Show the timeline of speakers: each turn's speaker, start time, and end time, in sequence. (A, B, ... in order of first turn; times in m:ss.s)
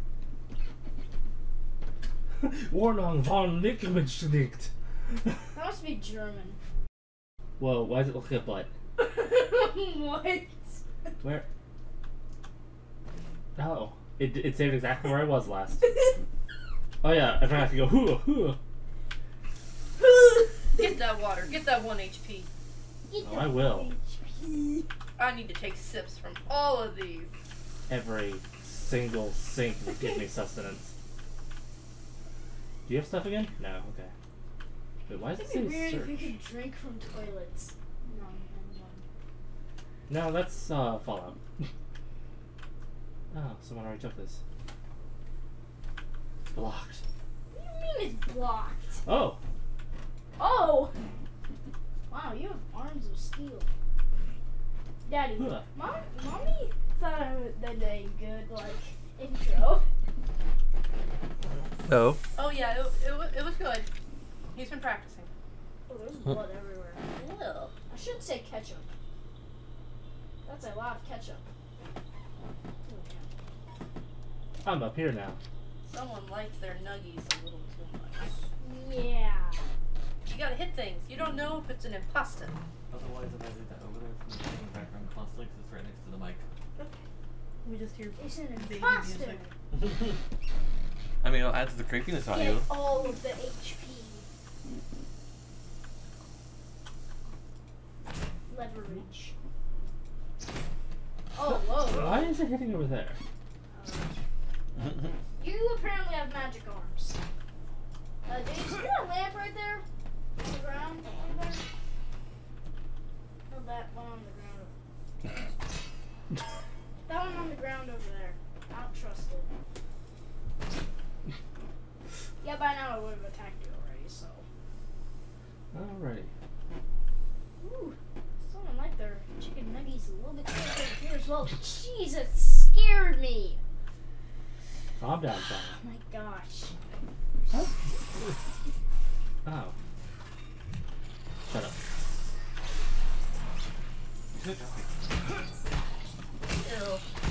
0:02.4-0:04.7 A
0:05.5-0:06.6 B
0:07.6-0:08.7 A
0:09.0-0:10.8 B
0:11.2-0:11.5 A
0:13.6-0:16.0 A
0:17.0-0:18.6 A
0:20.7-0:22.5 C
0:23.1-0:24.9 B
0:23.2-0:23.9 A
0:25.2-0:27.3 C
0:27.9-0:30.9 A
0:32.8-0:34.1 A
0:35.1-0:36.3 A
0:35.3-0:39.0 B
0:40.1-0:41.7 A
0:43.3-0:44.4 A
0:46.5-0:47.0 A
0:47.5-0:49.0 B
0:49.0-0:49.4 A
0:50.4-0:51.0 B
0:52.1-0:53.7 B
0:55.0-0:59.8 B
0:55.4-0:55.6 A
1:01.8-1:02.2 D
1:02.4-1:03.9 C
1:04.5-1:05.3 C
1:05.9-1:07.0 B
1:07.1-1:07.7 C
1:07.9-1:08.9 B
1:10.4-1:11.5 B
1:12.8-1:13.3 B
1:14.6-1:15.4 A
1:15.8-1:18.3 C
1:18.6-1:19.7 B
1:20.2-1:22.6 C
1:22.9-1:26.4 D
1:27.6-1:29.5 C
1:28.2-1:29.4 B
1:29.7-1:30.2 D
1:31.2-1:32.7 D
1:32.3-1:34.2 B
1:38.5-1:39.3 B
1:41.3-1:42.3 B
1:41.4-1:43.2 A
1:43.7-1:44.1 B
1:44.8-1:45.1 D
1:45.4-1:47.2 B
1:48.2-1:49.8 B
1:50.4-1:51.6 B
1:53.5-1:54.7 B
1:57.0-1:59.5 B
2:02.4-2:04.4 B
2:05.7-2:06.3 A
2:07.6-2:13.6 B
2:15.0-2:15.8 A
2:15.7-2:16.7 B
2:17.5-2:18.4 A
2:19.4-2:19.7 A
2:21.5-2:21.8 A
2:24.4-2:24.8 D
2:26.5-2:27.0 C